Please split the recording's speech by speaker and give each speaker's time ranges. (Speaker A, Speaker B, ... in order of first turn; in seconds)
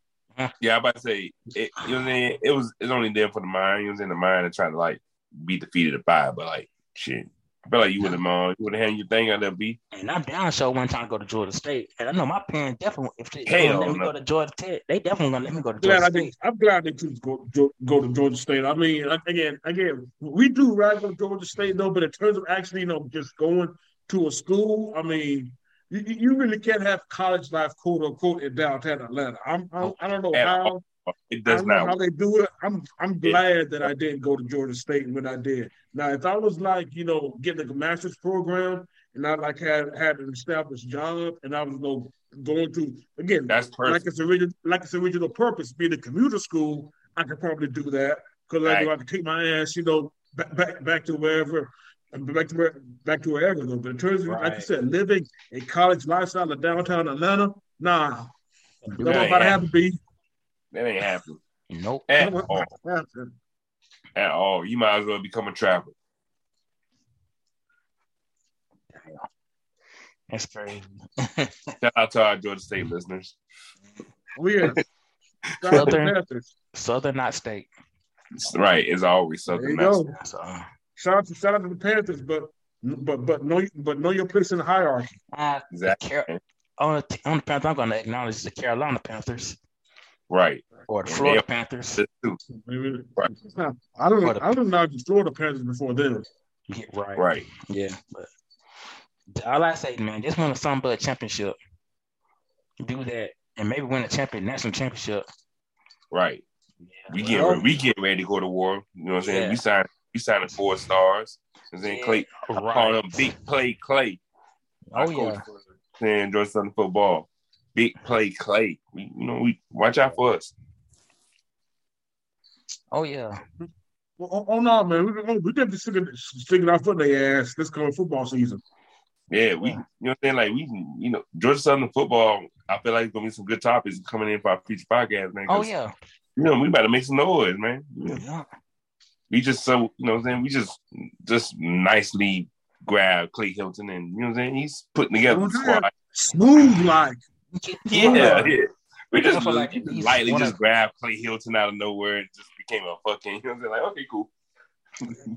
Speaker A: 0.6-9.8, 13.4-14.1, 29.8-32.0, 33.2-33.9, 43.5-44.0, 48.6-48.9, 59.0-59.5, 60.7-61.4, 62.1-62.7, 64.2-65.9, 71.8-73.3, 75.5-75.8, 78.4-80.0, 85.7-86.4, 90.3-91.4, 92.0-92.4, 97.2-97.5, 106.1-106.4, 107.1-114.2, 114.9-120.5, 129.3-135.7, 136.3-138.2, 139.3-145.9, 147.9-154.3
Speaker B: 9.9-16.3, 54.2-54.7, 58.8-59.6, 61.7-62.1, 70.3-71.7, 75.7-76.1, 76.7-77.7, 80.1-80.7, 85.3-86.3, 86.8-89.6, 90.9-92.0, 94.2-94.5, 96.7-98.3, 99.3-101.5, 102.8-105.2, 106.8-107.6, 109.2-109.6, 111.8-113.3, 114.9-115.4, 122.9-123.4, 135.5-135.9, 138.1-138.4, 147.5-148.5, 149.2-150.6
Speaker C: 15.8-30.8, 31.5-58.3, 58.9-60.0, 62.2-63.3, 74.3-74.8, 75.6-76.5, 79.5-80.1, 81.0-85.2, 92.6-96.3, 107.3-107.6, 124.2-128.6, 145.2-147.2, 147.9-148.5